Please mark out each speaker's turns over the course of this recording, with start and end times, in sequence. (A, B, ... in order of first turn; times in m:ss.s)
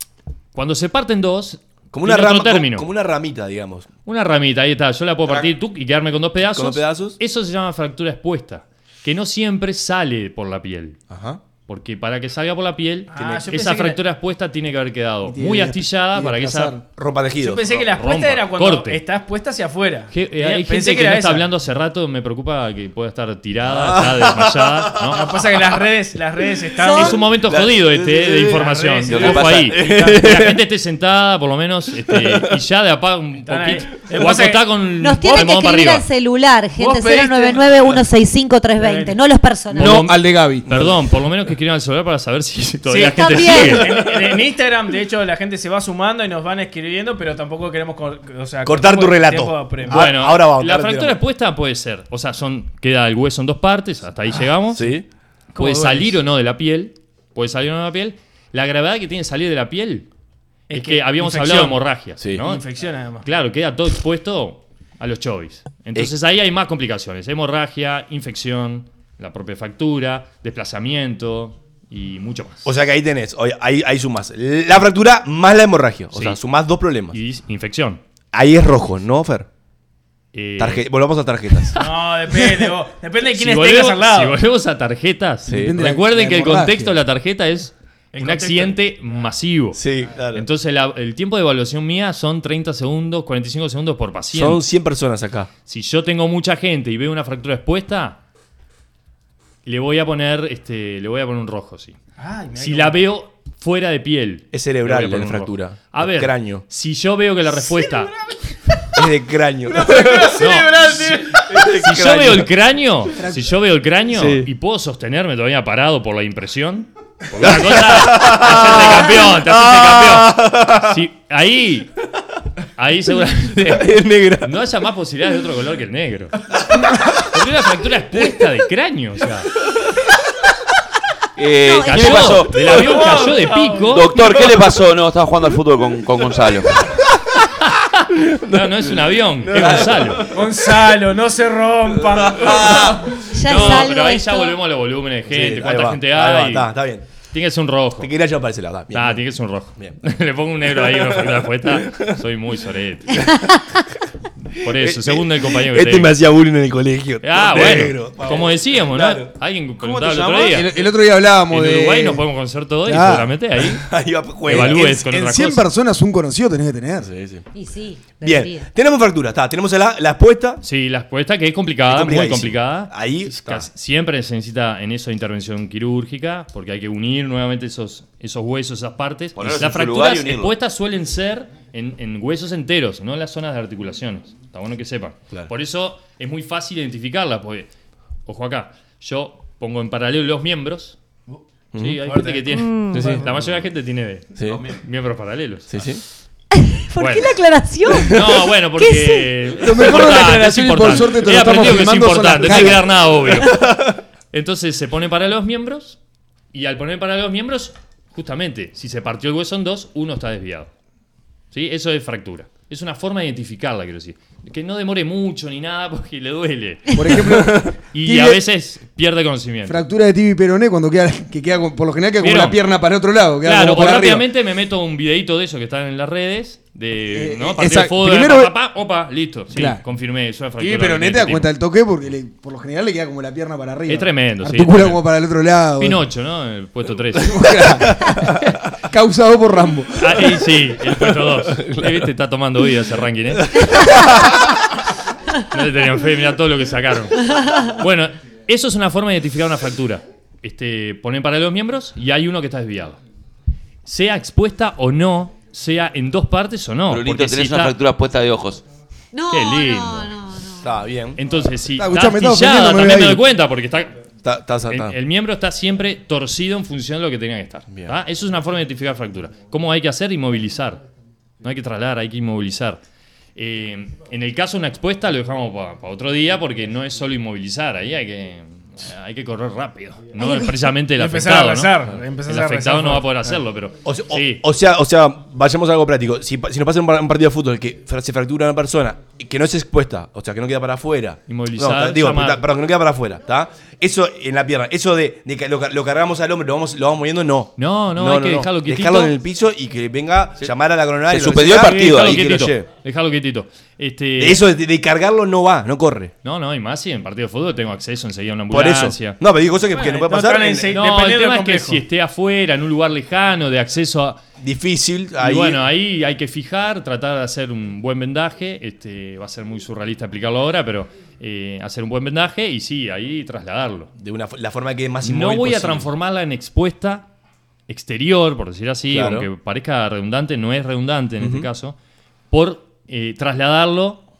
0:00.5-0:02.9 A
0:01.9-0:03.9 B
0:04.0-0:11.0 A
0:06.5-0:07.2 B
0:11.1-0:11.4 B
0:11.6-0:16.8 A
0:13.1-0:14.0 C
0:13.1-0:13.5 B
0:15.3-0:16.8 D
0:16.9-0:17.9 B
0:17.4-0:21.5 C
0:17.9-0:19.0 A
0:20.1-0:25.4 A
0:23.6-0:25.1 B
0:25.1-0:27.3 C
0:26.8-0:27.2 E
0:26.9-0:36.1 A
0:27.3-0:28.7 B
0:28.5-0:30.2 C
0:29.1-0:29.7 F
0:29.2-0:30.6 B
0:32.0-0:32.6 B
0:33.4-0:34.7 C
0:35.0-0:40.0 E
0:36.8-0:38.0 C
0:38.8-0:39.2 C
0:39.8-0:40.7 D
0:39.8-0:44.0 A
0:40.7-0:41.2 B
0:42.9-0:50.0 C
0:43.0-0:43.9 E
0:48.6-0:51.2 B
0:49.9-0:54.9 A
0:54.7-0:55.1 B
0:55.5-0:56.2 C
0:55.6-1:00.1 A
1:00.7-1:01.8 C
1:00.7-1:02.6 A
1:02.2-1:02.4 B
1:02.4-1:03.3 C
1:03.2-1:12.7 A
1:12.6-1:17.2 B
1:16.1-1:16.4 A
1:17.1-1:18.0 A
1:18.3-1:19.5 B
1:20.3-1:20.9 A
1:20.6-1:21.8 B
1:21.8-1:24.4 C
1:23.3-1:34.7 A
1:25.5-1:25.8 B
1:25.5-1:27.0 D
1:28.1-1:28.8 C
1:29.8-1:30.5 B
1:34.3-1:35.5 B
1:35.7-1:38.2 A
1:39.7-1:42.0 A
1:42.2-1:43.0 C
1:42.6-1:48.1 A
1:44.5-1:46.7 B
1:49.0-1:52.5 B
1:49.7-1:51.4 C
1:50.4-1:51.2 A
1:51.8-2:01.9 A
1:54.1-1:54.5 B
1:57.4-2:01.0 B
2:02.8-2:06.3 A
2:03.6-2:04.6 B
2:07.3-2:09.5 A
2:08.2-2:08.4 B
2:11.4-2:12.9 F
2:11.7-2:12.4 E
2:11.8-2:14.4 A
2:12.9-2:13.9 C
2:13.9-2:16.8 F
2:17.7-2:20.3 A
2:18.3-2:20.5 B
2:20.3-2:23.1 C
2:22.0-2:23.0 B
2:23.3-2:24.6 E
2:23.4-2:28.1 A
2:25.2-2:27.1 B
2:28.0-2:30.0 B
2:28.9-2:33.5 A
2:30.6-2:32.2 B
2:33.1-2:33.5 B
2:34.6-2:36.2 A
2:34.6-2:39.4 B
2:37.2-2:40.7 A
2:39.8-2:40.6 F
2:40.5-2:42.2 D
2:41.5-2:43.8 A
2:42.9-2:43.3 D
2:43.6-2:45.1 B
2:44.4-2:45.7 A
2:44.5-2:47.1 D
2:47.0-2:47.4 B
2:47.5-2:48.7 E
2:48.2-2:50.6 B
2:50.6-3:07.7 A
2:51.9-2:53.7 B
2:59.4-3:00.5 F
3:08.3-3:11.0 A
3:11.7-3:12.0 B
3:11.8-3:16.0 A
3:12.0-3:13.2 C
3:12.9-3:13.6 B
3:14.4-3:14.7 B
3:14.4-3:14.8 F
3:15.7-3:16.0 B
3:16.5-3:18.2 E
3:17.0-3:17.4 A
3:18.0-3:26.0 A
3:18.8-3:19.3 E
3:19.6-3:23.0 D
3:22.5-3:23.9 B
3:26.5-3:30.7 A
3:31.5-3:39.8 A
3:36.9-3:38.4 D
3:39.7-3:44.3 D
3:42.2-3:42.6 A
3:43.4-3:51.5 A
3:47.1-3:48.5 D
3:49.5-3:49.8 D
3:50.6-3:56.0 D
3:53.9-3:55.0 A
3:55.8-3:57.7 A
3:57.2-4:00.3 D
4:00.0-4:04.1 A
4:00.9-4:02.1 B
4:03.6-4:04.2 B
4:05.4-4:13.0 A
4:13.9-4:17.8 A
4:16.9-4:18.6 F
4:19.1-4:20.7 E
4:19.3-4:20.1 A
4:20.6-4:21.2 B
4:21.2-4:24.0 A
4:21.8-4:23.2 D
4:24.2-4:25.0 B
4:24.7-4:30.8 A
4:27.7-4:28.0 B
4:31.4-4:32.8 A
4:33.4-4:44.4 A
4:40.2-4:40.4 E
4:40.9-4:43.4 C
4:43.8-5:02.7 B
4:51.3-4:52.4 A
4:57.6-4:59.1 A
5:01.1-5:02.4 F
5:01.6-5:04.4 A
5:04.2-5:06.1 B
5:06.2-5:09.2 A
5:08.5-5:10.8 B
5:09.7-5:11.8 C
5:10.7-5:14.2 A
5:14.4-5:15.6 B
5:15.2-5:23.9 A
5:24.0-5:25.9 B
5:25.0-5:27.1 A
5:27.7-5:31.8 A
5:28.9-5:29.3 B
5:31.2-5:31.5 B
5:32.3-5:34.0 A